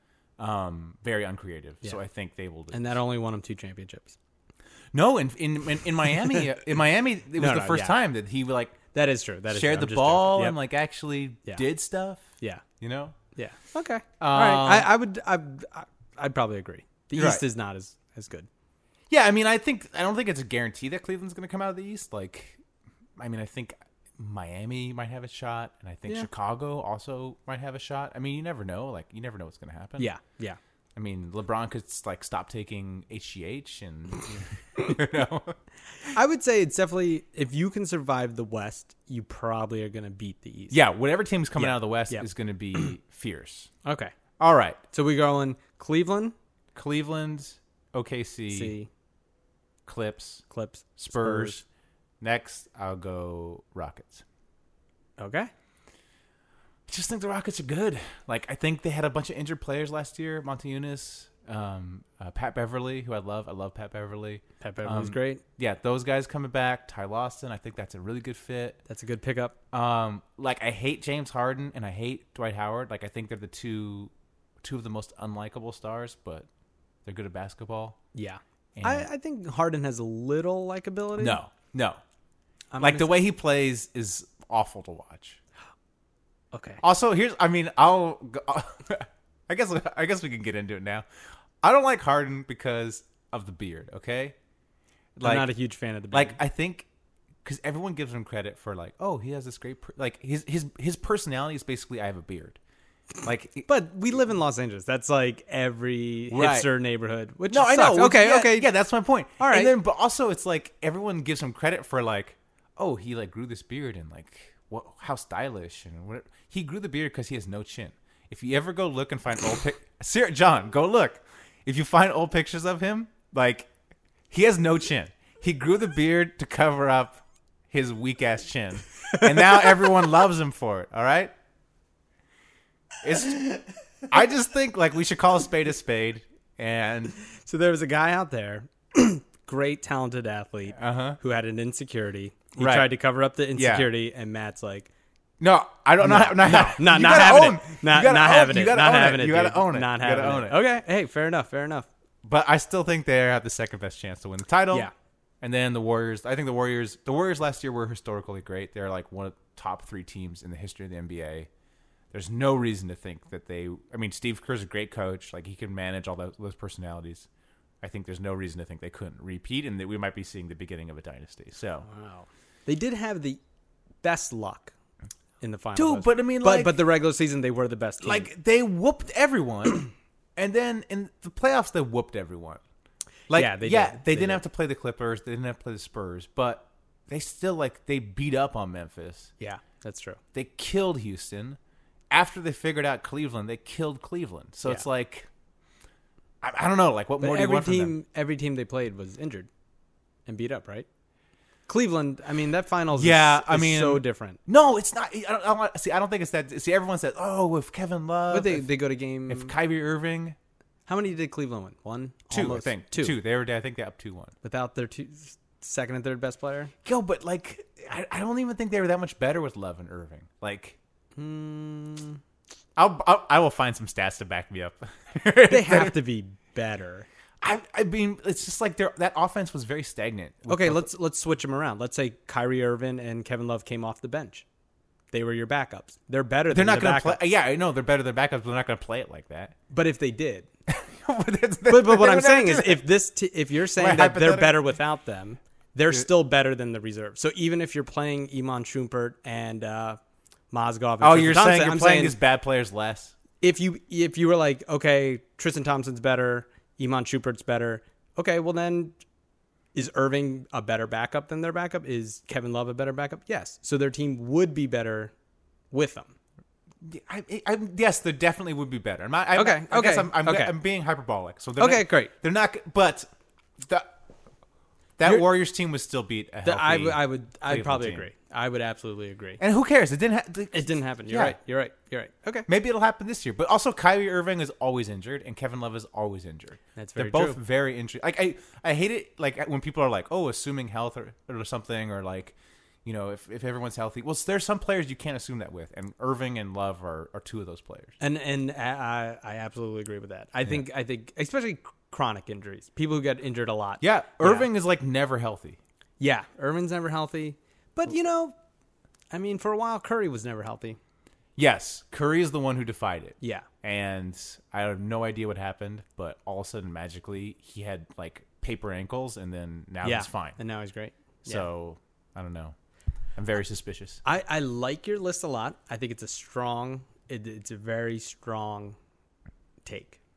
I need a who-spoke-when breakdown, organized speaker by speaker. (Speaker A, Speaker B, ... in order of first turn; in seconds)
Speaker A: 0.4-3.0, 4.9-8.9, 9.5-13.2, 14.2-14.9, 17.1-17.4, 19.1-22.6, 23.2-30.1, 30.9-35.6, 40.7-43.7, 44.4-44.8, 46.7-48.7, 49.9-50.5, 51.0-51.6, 52.2-54.2, 56.9-68.8, 69.7-74.1, 74.6-76.5, 77.0-78.0, 78.8-79.1, 81.2-82.0, 82.8-85.4, 86.8-91.0, 91.6-94.3, 95.2-95.5, 96.1-96.9, 97.4-102.6, 103.2-103.7, 106.3-106.7, 107.5-123.7, 124.3-131.3, 133.0-137.2, 140.8-141.2, 142.6-142.9, 143.5-143.9, 145.4-150.6, 152.2-154.9, 155.4-161.5, 162.1-167.3, 167.8-171.9, 175.7-176.8, 178.0-182.6, 183.3-189.3, 190.3-191.6, 192.1-195.3, 196.4-197.9, 202.9-208.7, 209.3-210.3, 212.3-214.3, 216.8-220.8, 222.8-226.0, 227.4-230.9, 236.5-239.6, 240.7-242.9, 243.7-244.7, 251.0-253.1, 266.8-273.1, 275.0-278.1, 279.4-281.4, 282.5-297.9, 303.8-305.6, 311.4-320.4, 321.2-322.5, 323.1-324.0
Speaker B: 2.7-4.1, 7.3-7.9, 8.9-10.6, 13.3-18.5, 30.0-30.6, 36.1-40.8, 41.6-42.9, 43.9-44.1, 44.9-46.3, 48.5-48.9, 50.5-51.6, 55.2-55.5, 64.6-65.4, 68.9-69.5, 78.1-81.4, 82.7-83.1, 86.5-86.8, 95.2-96.4, 103.7-108.7, 109.4-109.8, 137.3-144.9, 146.0-151.9, 171.8-173.4, 174.0-174.7, 175.4-178.3, 183.3-184.4, 189.4-190.2, 197.2-199.5, 200.3-200.9, 201.7-204.4, 208.3-209.5, 210.9-213.2, 214.4-216.7, 221.2-222.2, 225.5-227.1, 230.5-234.4, 235.1-237.2, 239.7-240.5, 241.7-250.0, 250.5-252.2, 253.4-258.9, 259.7-265.1, 265.7-266.1, 269.4-270.5, 271.6-272.1, 276.4-279.4, 280.5-282.5, 286.8-287.4, 298.0-304.5, 306.0-308.3, 309.1-310.8, 313.2-313.4, 319.8-321.4, 324.0-328.8, 329.6-330.0